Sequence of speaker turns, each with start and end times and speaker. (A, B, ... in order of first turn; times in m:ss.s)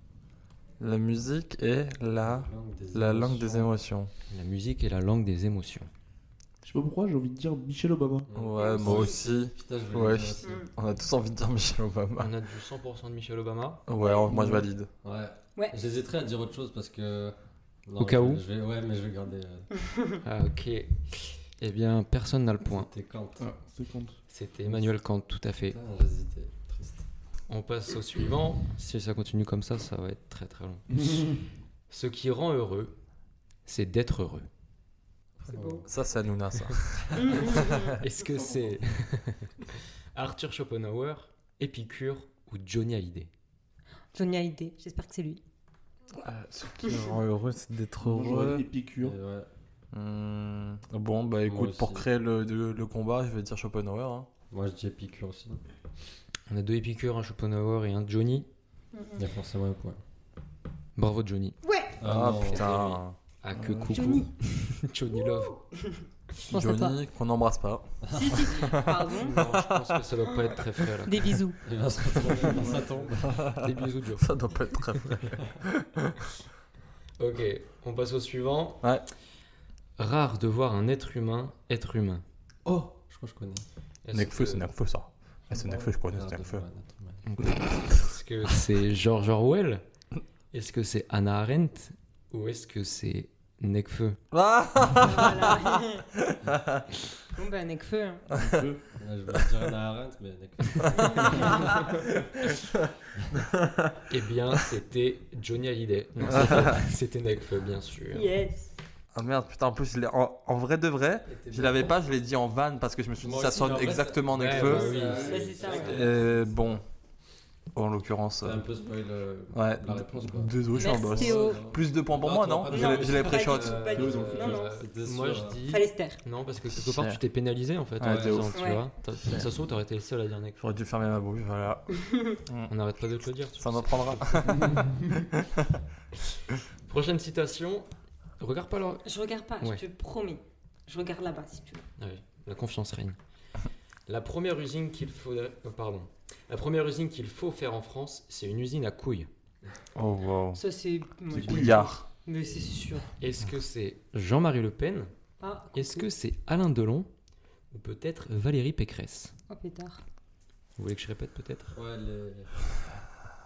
0:00.8-0:04.1 A
0:02.2-0:03.7 B
0:04.3-0:05.9 C
0:06.6-0:08.3 D
0:08.3-0:10.7 B
0:08.3-0:12.3 A
0:08.6-0:09.2 E
0:10.4-0:10.7 E
0:12.2-0:13.9 C
0:13.9-0:14.9 A
0:14.3-0:14.6 D
0:15.0-0:19.9 B
0:18.0-0:18.4 C
0:20.2-0:22.9 C
0:22.6-0:23.4 B
0:23.4-0:24.2 D
0:24.3-0:25.8 C
0:25.7-0:27.0 B
0:27.5-0:31.4 C
0:30.9-0:31.4 D
0:31.9-0:32.9 C
0:33.6-0:34.5 C
0:35.4-0:35.9 B
0:35.5-0:35.8 E
0:35.9-0:38.0 A
0:37.2-0:37.9 E
0:38.0-0:43.3 C
0:38.3-0:38.8 D
0:44.1-0:45.4 E
0:46.2-0:48.7 A
0:48.0-0:49.2 D
0:49.0-0:49.5 B
0:49.9-0:54.3 A
0:51.5-0:52.0 B
0:54.5-0:55.6 B
0:56.5-0:58.5 C
0:58.9-0:59.2 E
0:59.2-1:00.0 B
1:01.0-1:01.6 C
1:01.6-1:01.9 E
1:02.0-1:02.7 B
1:02.0-1:03.1 A
1:02.5-1:05.6 C
1:03.5-1:04.2 D
1:03.9-1:04.3 E
1:05.5-1:05.9 E
1:06.5-1:07.0 E
1:06.5-1:09.9 A
1:08.0-1:08.4 B
1:08.1-1:09.3 E
1:09.2-1:11.4 C
1:11.0-1:11.6 E
1:11.6-1:13.5 B
1:12.5-1:13.6 A
1:12.6-1:12.9 D
1:13.6-1:15.1 C
1:14.1-1:16.2 A
1:17.2-1:18.8 C
1:20.0-1:22.2 C
1:23.0-1:23.6 B
1:24.0-1:24.7 C
1:24.1-1:26.6 A
1:25.5-1:25.9 D
1:26.1-1:27.2 B
1:27.2-1:29.8 C
1:27.6-1:28.0 A
1:30.5-1:34.2 C
1:34.3-1:36.8 A
1:35.0-1:36.0 E
1:37.3-1:38.3 E
1:38.3-1:38.9 D
1:38.3-1:38.6 A
1:39.0-1:41.8 B
1:43.5-1:44.0 A
1:44.1-1:48.3 C
1:46.2-1:46.8 A
1:48.1-1:48.7 E
1:49.1-1:54.9 A
1:51.3-1:51.9 B
1:53.2-1:56.6 B
1:54.3-1:56.0 C
1:54.8-1:55.6 D
1:55.2-1:56.0 E
1:55.7-1:56.8 A
1:57.7-1:58.6 A
1:58.4-2:03.6 B
1:59.5-2:04.0 A
2:00.7-2:01.6 E
2:02.7-2:04.8 E
2:03.4-2:10.6 C
2:03.9-2:04.6 D
2:04.2-2:05.6 B
2:05.7-2:06.2 E
2:06.7-2:07.2 A
2:08.0-2:08.5 A
2:08.0-2:08.6 B
2:08.5-2:08.8 E
2:10.6-2:12.7 A
2:12.7-2:14.7 C
2:13.6-2:15.7 A
2:16.8-2:17.9 C
2:18.4-2:19.0 C
2:19.0-2:21.8 E
2:22.0-2:23.2 C
2:24.1-2:29.3 C
2:29.9-2:30.6 A
2:30.5-2:33.1 E
2:31.3-2:31.9 D
2:31.3-2:32.0 A
2:33.2-2:35.1 C
2:35.4-2:36.1 E
2:35.7-2:37.1 C
2:37.7-2:39.3 C
2:39.5-2:40.0 E
2:40.8-2:41.7 C
2:41.7-2:42.9 B